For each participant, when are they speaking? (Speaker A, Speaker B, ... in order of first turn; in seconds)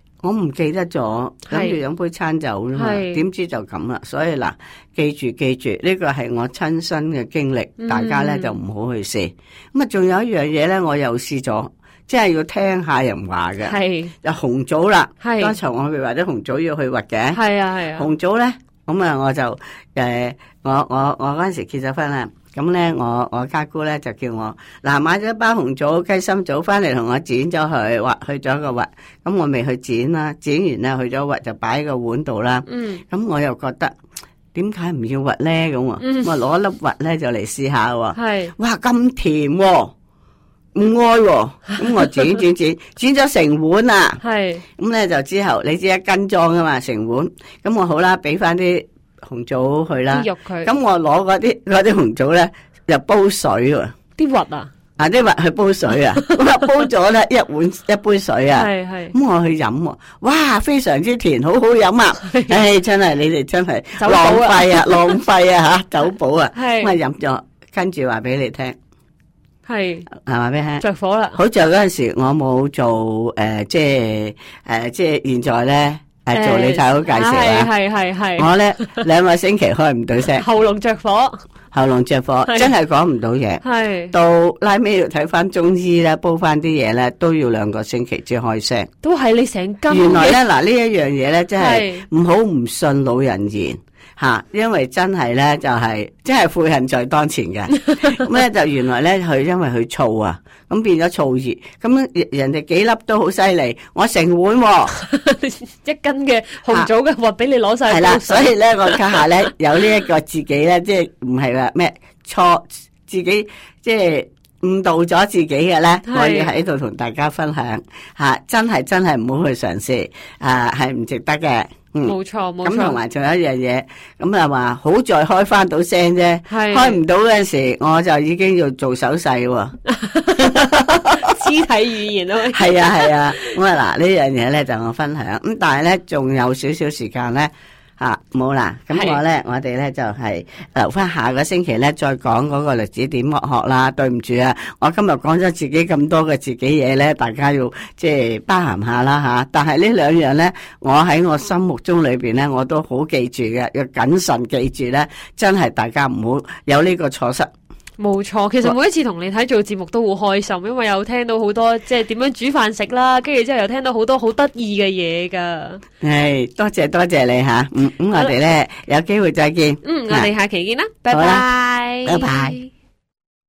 Speaker A: 0.2-17.4, 17.9-33.9, 34.5-39.9, 40.8-44.2, 44.8-54.0, 55.0-68.8, 70.2-70.8, 71.3-77.7, 78.4-80.4, 81.7-88.9, 89.9-105.0, 107.9-129.8, 130.4-131.2, 132.5-157.5, 166.0-170.3, 171.1-171.4, 172.0-172.6
Speaker B: 1.5-1.8, 2.7-3.2, 7.8-8.6, 13.6-14.1, 15.2-15.6, 17.3-18.1, 32.7-33.0, 36.0-36.3, 38.1-38.5, 41.9-42.4, 44.2-44.6, 50.1-50.7, 54.2-54.7, 56.2-56.7, 58.5-59.1, 62.2-62.6, 64.0-65.2, 66.5-67.0, 69.7-70.1, 70.8-71.4, 76.3-79.0, 80.3-81.4, 83.6-84.1, 89.0-90.4, 91.6-92.1, 104.9-109.0, 116.1-116.5, 122.0-123.0, 126.5-127.0, 129.9-133.6, 138.9-139.2, 158.0-165.8, 169.8-172.7